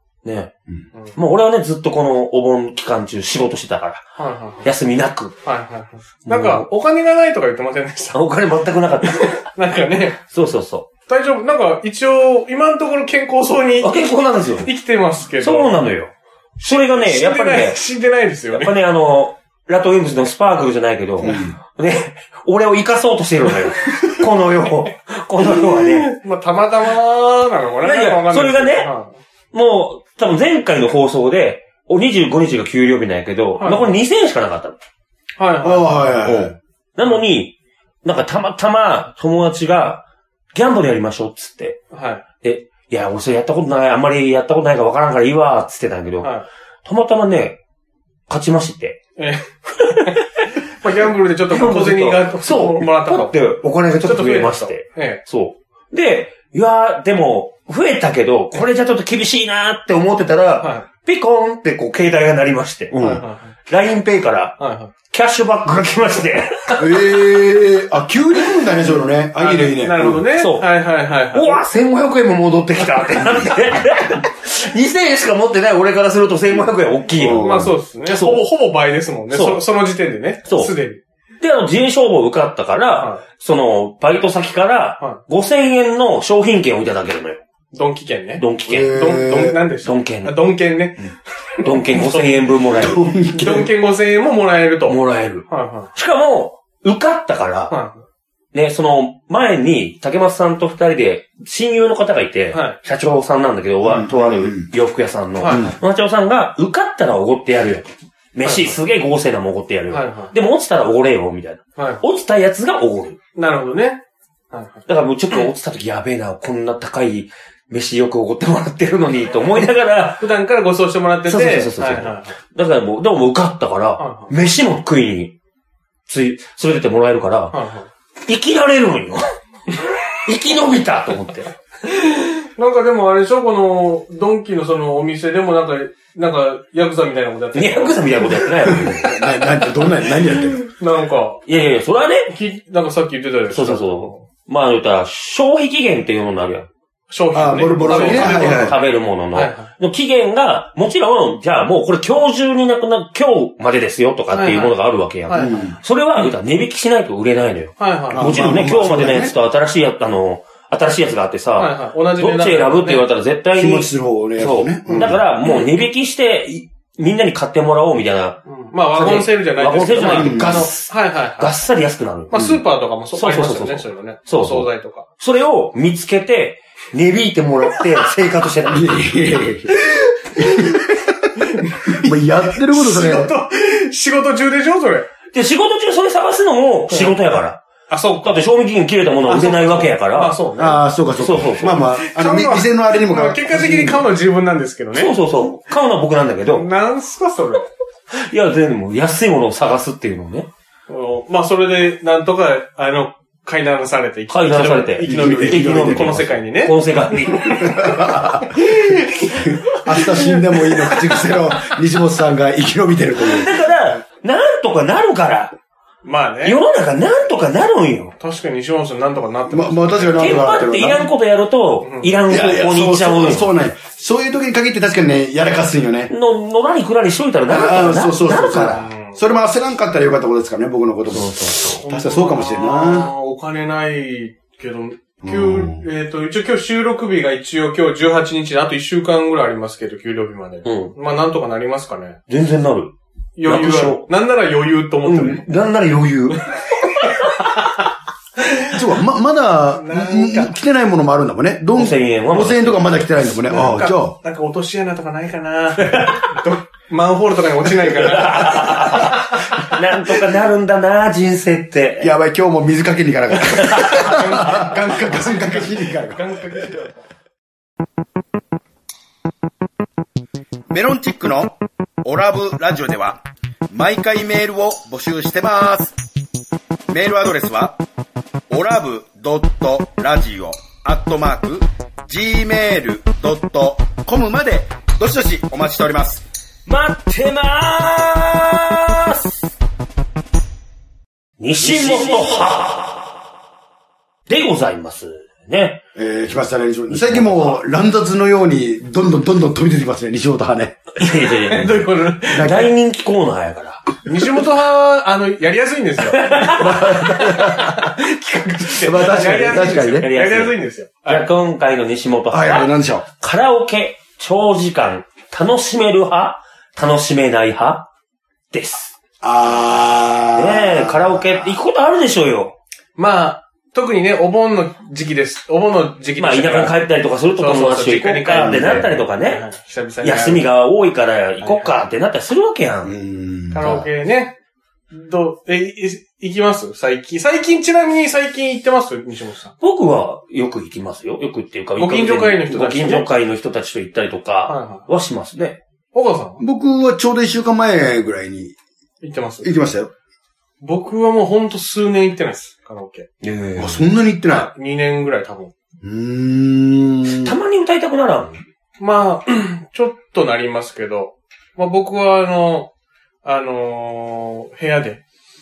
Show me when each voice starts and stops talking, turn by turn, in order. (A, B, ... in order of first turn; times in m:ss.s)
0:00.2-0:00.5 A
0:01.1-0:04.0 A
0:04.2-0:04.7 B
0:04.6-0:05.4 A
0:05.4-0:08.2 B
0:06.2-0:06.7 A
0:08.1-0:09.4 A
0:09.2-0:10.2 B
0:10.3-0:10.9 A
0:11.1-0:15.8 B
0:13.8-0:14.7 A
0:15.4-0:17.8 A
0:17.0-0:18.7 B
0:18.5-0:26.1 A
0:21.2-0:21.6 C
0:25.4-0:29.2 B
0:27.8-0:28.9 A
0:29.5-0:34.8 A
0:33.6-0:34.0 B
0:35.4-0:36.4 B
0:35.6-0:36.5 C
0:36.2-0:41.8 A
0:41.9-0:42.2 B
0:42.4-0:46.3 A
0:46.2-0:46.5 B
0:46.8-0:47.6 A
0:48.3-0:49.0 A
0:49.2-0:53.4 B
0:49.8-0:50.2 A
0:51.5-1:04.6 A
0:54.0-0:55.2 B
1:00.6-1:00.9 B
1:03.0-1:03.6 B
1:04.6-1:04.9 B
1:05.1-1:07.0 A
1:06.8-1:10.2 C
1:09.4-1:11.6 B
1:10.3-1:10.7 A
1:11.3-1:18.4 A
1:17.2-1:17.7 C
1:17.4-1:21.0 B
1:19.3-1:19.6 A
1:20.5-1:20.7 A
1:21.4-1:27.4 A
1:23.0-1:23.2 B
1:27.7-1:32.4 B
1:28.4-1:29.0 A
1:28.7-1:29.6 C
1:29.8-1:30.4 A
1:31.6-1:33.0 A
1:32.8-1:33.7 C
1:33.3-1:35.9 B
1:34.9-1:37.8 A
1:37.7-1:38.0 B
1:38.5-1:53.2 A
1:42.5-1:42.8 B
1:43.8-1:44.7 C
1:45.4-1:45.8 B
1:45.5-1:45.8 C
1:48.4-1:48.8 B
1:49.9-1:50.3 B
1:51.8-1:52.0 B
1:53.4-1:54.8 B
1:54.9-2:00.3 A
2:00.2-2:02.4 B
2:01.3-2:05.3 A
2:04.0-2:04.3 B
2:06.1-2:07.6 A
2:07.5-2:07.9 B
2:08.2-2:09.2 A
2:10.2-2:11.5 A
2:11.9-2:18.5 B
2:17.5-2:19.2 A
2:18.7-2:20.6 C
2:20.6-2:21.4 B
2:21.5-2:22.4 A
2:22.3-2:24.2 B
2:23.5-2:26.7 A
2:27.1-2:29.7 B
2:27.3-2:28.8 C
2:27.7-2:48.4 A
2:34.3-2:34.8 B
2:35.3-2:35.6 B
2:35.3-2:35.8 C
2:37.8-2:38.5 B
2:38.1-2:39.3 C
2:41.6-2:43.0 B
2:43.6-2:45.2 C
2:44.9-2:45.7 B
2:48.5-2:51.6 B
2:48.9-2:52.5 A
2:50.1-2:50.7 C
2:52.3-2:55.1 B
2:52.3-2:52.6 C
2:53.2-2:59.0 A
2:58.7-3:03.3 C
3:00.4-3:00.8 B
3:01.4-3:05.1 B
3:05.3-3:07.6 A
3:06.9-3:07.1 B
3:07.9-3:08.4 B
3:08.2-3:10.4 A
3:09.3-3:10.8 B
3:10.6-3:14.0 C
3:11.2-3:11.9 A
3:12.0-3:15.2 B
3:14.9-3:16.7 A
3:16.5-3:17.7 B
3:18.1-3:20.5 A
3:20.9-3:27.8 B
3:24.3-3:28.0 A
3:25.0-3:26.3 C
3:27.4-3:33.5 C
3:28.4-3:31.3 B
3:33.2-3:35.5 A
3:36.0-3:36.6 B
3:36.4-3:38.1 A
3:38.2-3:40.4 B
3:39.5-3:41.1 C
3:40.2-3:43.5 A
3:41.8-3:42.1 B
3:42.3-3:46.1 C
3:46.1-3:48.9 A
3:47.5-3:53.1 C
3:48.6-3:49.2 B
3:51.1-3:51.8 A
3:51.7-4:02.2 B
3:55.2-3:55.8 C
4:00.6-4:00.9 A
4:02.3-4:02.9 A
4:03.4-4:05.5 B
4:03.4-4:04.1 A
4:05.0-4:06.4 A
4:06.3-4:07.5 B
4:08.4-4:08.8 B
4:08.7-4:14.1 C
4:09.7-4:10.5 B
4:11.7-4:13.8 A
4:13.5-4:19.2 B
4:18.0-4:22.1 A
4:22.0-4:26.8 C
4:23.6-4:24.1 A
4:23.7-4:27.0 B
4:30.7-4:35.9 C
4:36.9-4:37.8 C
4:38.5-4:46.2 C
4:46.6-4:49.3 A
4:51.4-4:53.0 A
4:54.3-4:55.8 A
4:56.0-5:00.8 C
4:56.9-4:57.6 A
5:01.0-5:03.9 A
5:01.3-5:02.7 B
5:02.3-5:02.7 C
5:04.0-5:11.3 B
5:06.1-5:06.9 A
5:06.5-5:07.9 C
5:08.7-5:10.1 C
5:09.4-5:17.9 A
5:12.3-5:13.0 C
5:18.5-5:18.9 A
5:19.2-5:21.5 C
5:20.3-5:22.6 A
5:23.0-5:26.8 B
5:26.2-5:29.4 A
5:27.4-5:30.5 B
5:28.3-5:28.9 C
5:30.0-5:32.9 A
5:31.4-5:31.7 B
5:32.8-5:33.7 C
5:33.5-5:34.3 B
5:33.5-5:33.8 A
5:34.9-5:39.6 B
5:39.6-5:45.6 A
5:41.8-5:43.1 B
5:44.5-5:44.9 B
5:45.9-5:46.4 B
5:46.4-5:48.5 C
5:49.0-5:49.5 B
5:49.4-5:49.9 C
5:50.6-5:53.1 B
5:53.2-5:53.8 A
5:53.6-5:54.5 C
5:54.3-5:55.5 B
5:55.8-5:57.3 C
5:57.0-5:58.4 A
5:58.8-6:02.7 B
6:03.2-6:05.0 B